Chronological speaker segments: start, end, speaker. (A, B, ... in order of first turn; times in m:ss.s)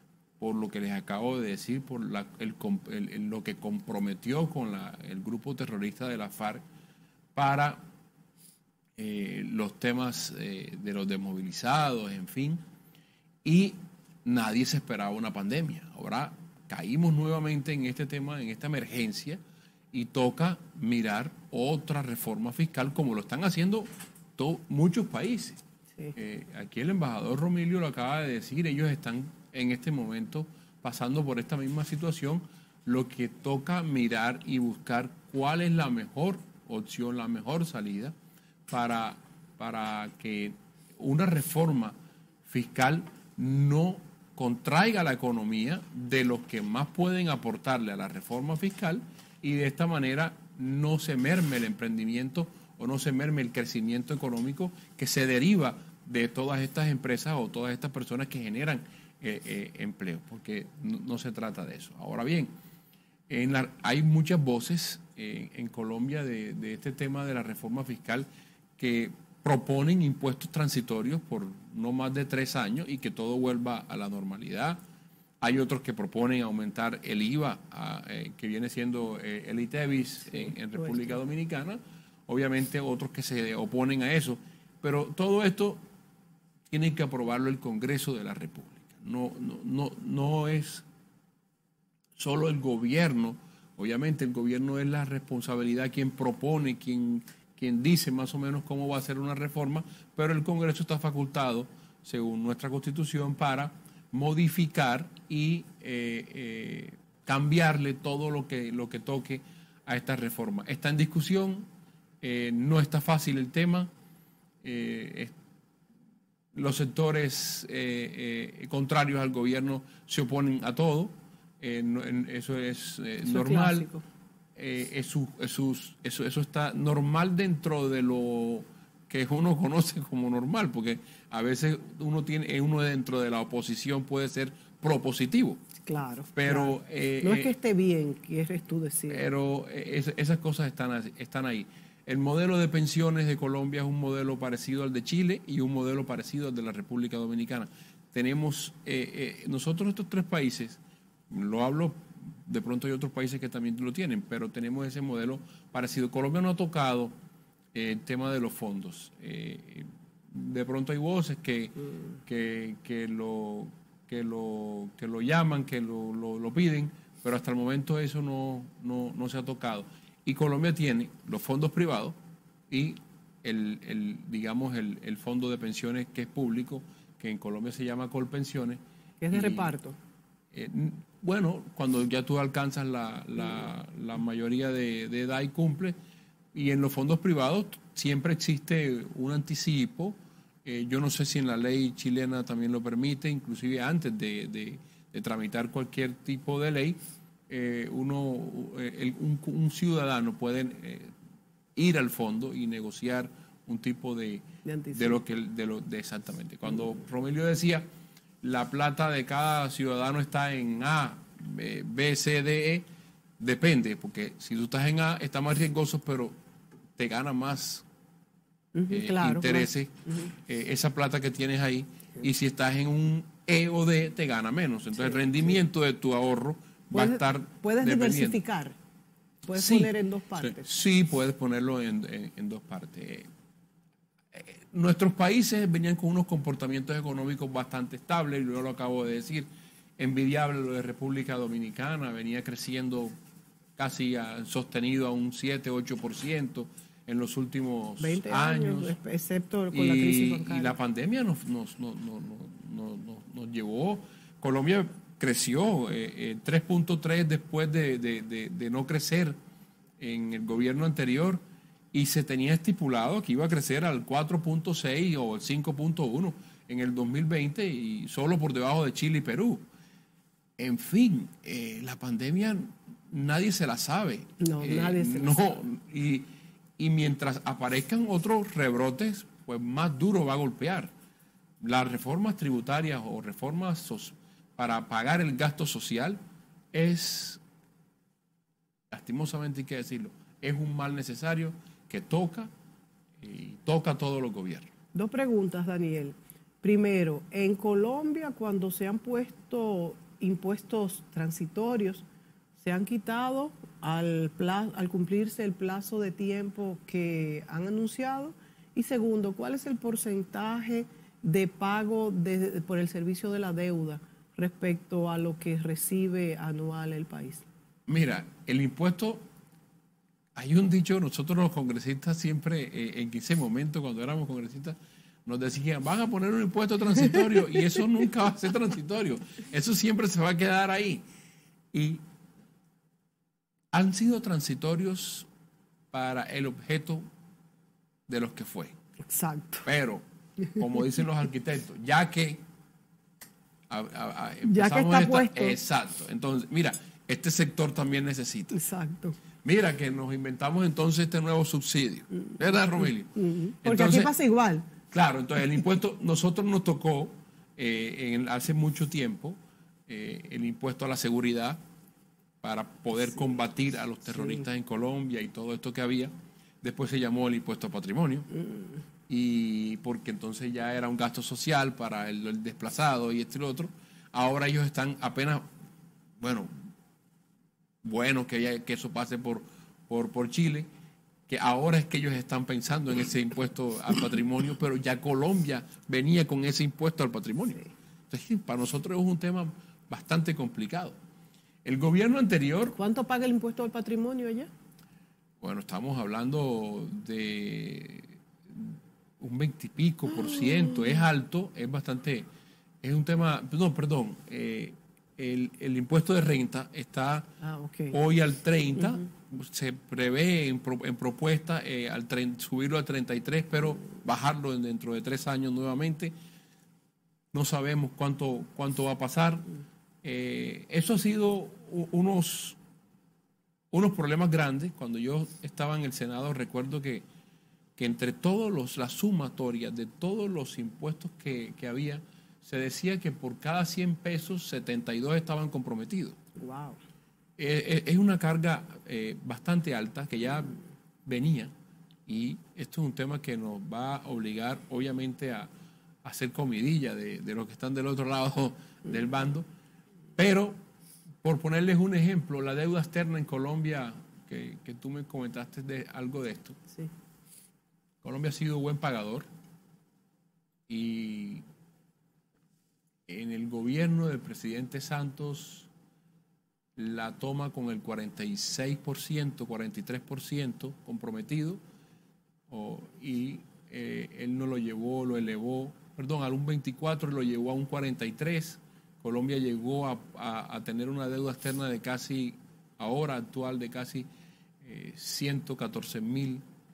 0:00.4-0:06.6 A
0:07.3-0:07.8 A
0:09.0-0:12.6 A
0:13.4-0:19.4 A
0:19.9-0:25.6 A
0:26.1-0:38.1 A
0:38.7-1:02.5 A
1:03.3-1:08.3 A
1:08.8-1:14.8 A
1:15.4-1:25.8 A
1:20.8-1:21.0 B
1:26.7-1:30.8 A
1:32.2-1:51.7 A
1:52.2-1:53.9 A
1:54.6-1:55.3 A
1:56.5-2:03.9 A
2:03.2-2:04.0 B
2:04.6-2:15.6 A
2:15.8-2:19.3 B
2:16.3-2:17.5 A
2:19.1-2:37.1 A
2:37.7-2:52.2 A
2:52.7-2:58.8 A
2:59.2-3:00.0 B
2:59.3-2:59.7 A
3:00.5-3:06.0 A
3:06.5-3:17.0 A
3:17.5-3:21.1 A
3:21.8-3:27.8 A
3:24.6-3:25.2 B
3:28.4-3:32.8 A
3:33.4-3:36.3 A
3:37.0-3:37.8 A
3:38.7-3:40.3 B
3:38.9-3:48.4 A
3:46.9-3:48.8 B
3:49.5-3:50.6 B
3:49.5-3:53.3 A
3:54.3-3:59.5 A
4:00.0-4:03.1 A
4:03.8-4:08.9 A
4:08.0-4:10.7 B
4:09.7-4:19.4 A
4:20.0-4:21.4 A
4:21.9-4:29.6 A
4:30.6-4:40.9 A
4:34.4-4:35.4 B
4:41.6-4:46.2 A
4:46.7-4:47.4 A
4:48.9-4:52.5 A
4:53.2-4:54.7 A
4:54.9-5:02.0 B
5:02.6-5:17.4 B
5:17.9-5:19.2 A
5:20.3-5:31.0 A
5:31.7-5:32.0 A
5:33.7-5:35.3 A
5:35.9-5:37.0 A
5:38.1-5:38.7 A
5:39.1-5:39.6 B
5:39.6-5:40.0 A
5:40.5-5:42.4 A
5:43.7-5:48.6 A
5:44.4-5:45.6 B
5:48.5-5:49.2 B
5:49.4-5:54.1 A
5:53.2-5:54.7 B
5:54.9-6:01.6 A
6:02.4-6:08.3 A
6:09.1-6:15.4 A
6:16.2-6:16.5 A
6:17.8-6:20.7 A
6:21.3-6:31.0 A
6:31.6-6:32.8 A
6:32.8-6:34.5 B
6:35.4-6:42.3 A
6:42.8-6:47.3 A
6:47.4-6:48.0 B
6:47.9-6:56.1 A
6:57.3-6:59.5 A
7:00.0-7:02.6 A
7:03.7-7:07.0 A
7:07.8-7:16.2 A
7:16.4-7:16.8 B
7:17.4-7:21.5 A
7:22.1-7:25.5 A
7:26.0-7:29.5 A
7:30.2-7:30.6 A
7:31.2-7:36.6 A
7:38.0-7:39.3 A
7:40.7-7:41.4 A
7:43.1-7:45.7 A
7:46.8-7:51.6 A
7:52.5-8:04.1 A
8:04.6-8:06.4 A